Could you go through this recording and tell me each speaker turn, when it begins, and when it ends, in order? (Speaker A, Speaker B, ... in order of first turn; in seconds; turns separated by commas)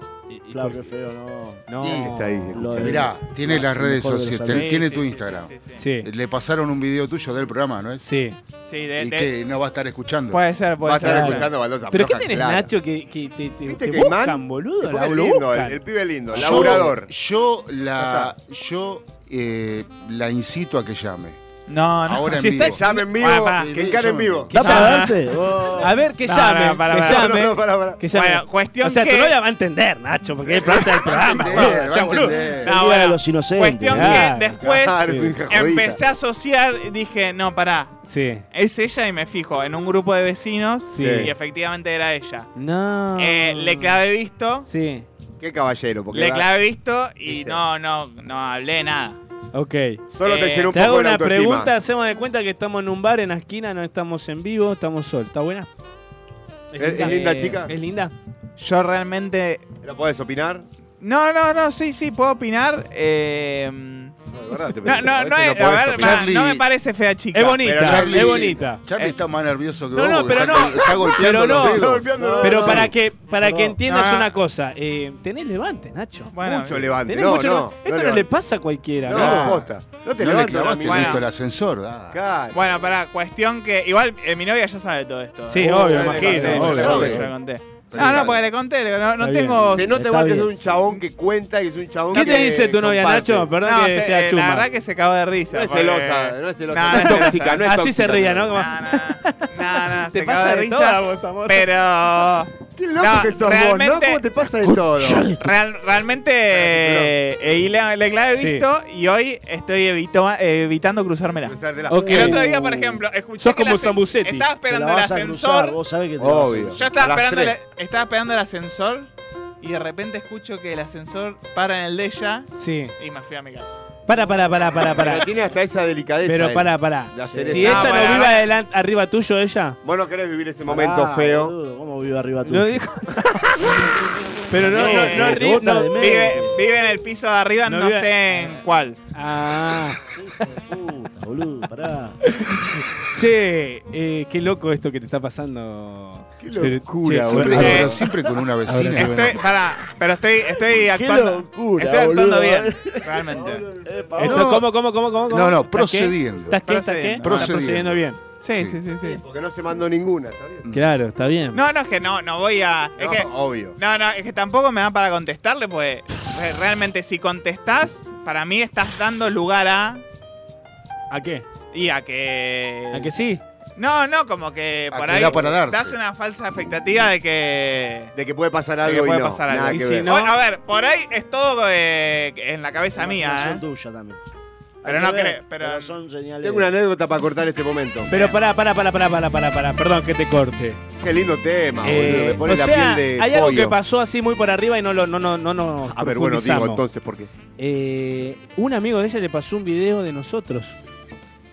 Speaker A: 0.3-0.9, Speaker B: 0.5-1.7, Speaker A: 1.7-3.0, Speaker C: 1.8-2.1, Speaker D: 1.8-3.0, Speaker B: 2.5-4.7, Speaker C: 2.8-8.1, Speaker E: 4.5-5.8, Speaker A: 5.8-6.1, Speaker A: 8.0-8.4, Speaker E: 8.7-9.3, Speaker C: 9.0-10.4, Speaker E: 10.3-11.5, Speaker D: 10.8-12.7, Speaker A: 11.0-15.8, Speaker D: 13.7-17.1, Speaker C: 16.3-21.4, Speaker A: 16.4-16.8, Speaker D: 18.0-18.3, Speaker E: 21.7-22.5, Speaker C: 22.0-24.5, Speaker A: 22.3-23.1, Speaker D: 22.6-24.5, Speaker E: 23.2-23.7, Speaker A: 24.5-25.1, Speaker B: 24.5-25.9, Speaker E: 24.6-25.1, Speaker A: 25.8-32.5, Speaker E: 26.3-27.3, Speaker D: 26.9-28.0, Speaker E: 28.1-29.4, Speaker D: 30.5-31.8, Speaker C: 30.9-32.7, Speaker B: 32.6-34.3, Speaker E: 32.6-38.0, Speaker A: 33.9-35.3, Speaker D: 34.6-36.0, Speaker A: 38.1-38.4, Speaker E: 38.5-42.5, Speaker A: 40.9-41.3, Speaker D: 41.0-41.3, Speaker A: 42.6-44.0, Speaker E: 43.2-44.7, Speaker A: 44.7-45.1, Speaker D: 45.4-46.5, Speaker E: 46.1-49.2, Speaker D: 47.2-47.6, Speaker A: 49.5-50.0, Speaker D: 50.1-51.7, Speaker E: 50.2-50.7, Speaker A: 50.7-55.7, Speaker A: 56.7-58.1, Speaker D: 56.8-57.7, Speaker E: 58.6-59.7, Speaker D: 59.8-60.7, Speaker E: 61.0-64.1, Speaker D: 64.3-66.3, Speaker E: 64.8-67.7, Speaker C: 65.9-66.7, Speaker A: 67.3-68.8, Speaker D: 67.6-68.6, Speaker C: 67.8-72.1, Speaker A: 69.9-79.6, Speaker D: 71.2-72.9, Speaker B: 72.1-73.8, Speaker E: 73.9-74.3, Speaker E: 76.3-77.0, Speaker D: 76.5-78.3, Speaker D: 79.0-81.2, Speaker C: 79.1-82.2, Speaker E: 80.9-81.2, Speaker D: 82.1-82.6, Speaker E: 82.5-89.9, Speaker A: 85.5-87.2, Speaker D: 85.6-87.2, Speaker C: 86.5-87.3, Speaker C: 87.9-88.4, Speaker D: 88.0-88.3, Speaker A: 89.2-89.8, Speaker D: 89.7-93.5, Speaker B: 89.9-90.6, Speaker A: 92.1-94.7, Speaker E: 93.6-97.6, Speaker A: 95.5-95.8, Speaker D: 95.7-98.5, Speaker A: 96.9-101.7, Speaker E: 98.5-104.2, Speaker D: 102.8-105.3, Speaker A: 104.6-105.4, Speaker E: 105.4-115.8, Speaker D: 106.5-107.1, Speaker A: 108.3-108.7, Speaker D: 111.5-112.5, Speaker A: 111.9-112.7, Speaker A: 113.4-114.5, Speaker B: 114.7-116.8, Speaker D: 116.2-117.5, Speaker E: 116.8-119.1, Speaker E: 119.6-123.8, Speaker A: 122.6-122.9, Speaker A: 124.1-125.3, Speaker D: 124.8-128.2, Speaker A: 126.2-129.8, Speaker B: 127.3-127.8, Speaker E: 127.7-128.5, Speaker D: 129.8-131.5, Speaker B: 130.7-132.8, Speaker A: 132.5-133.7, Speaker B: 133.7-136.5, Speaker A: 134.5-136.1, Speaker E: 134.7-139.0, Speaker A: 137.7-138.6, Speaker A: 139.1-140.0, Speaker B: 140.1-142.2, Speaker A: 142.2-148.0, Speaker D: 146.4-148.0, Speaker C: 147.3-149.3, Speaker E: 147.5-147.9, Speaker A: 148.7-149.4, Speaker E: 149.0-153.7, Speaker B: 150.8-154.6, Speaker A: 154.2-158.2, Speaker C: 154.2-154.7, Speaker C: 155.3-156.6, Speaker E: 156.6-157.6, Speaker C: 157.2-158.8, Speaker E: 158.4-159.2, Speaker D: 159.0-160.6, Speaker A: 160.7-161.6, Speaker E: 161.5-170.0, Speaker D: 163.0-163.8, Speaker A: 171.1-171.5, Speaker E: 171.7-173.1, Speaker A: 172.9-173.4, Speaker E: 173.8-178.1, Speaker C: 174.9-176.0, Speaker D: 178.2-180.1, Speaker E: 178.8-183.6, Speaker A: 179.7-180.3, Speaker B: 183.0-184.2, Speaker B: 184.8-186.8, Speaker E: 184.8-186.0, Speaker D: 186.4-188.2, Speaker A: 188.1-190.8, Speaker D: 191.0-193.8, Speaker A: 191.8-196.8, Speaker D: 195.9-197.3, Speaker A: 197.6-200.8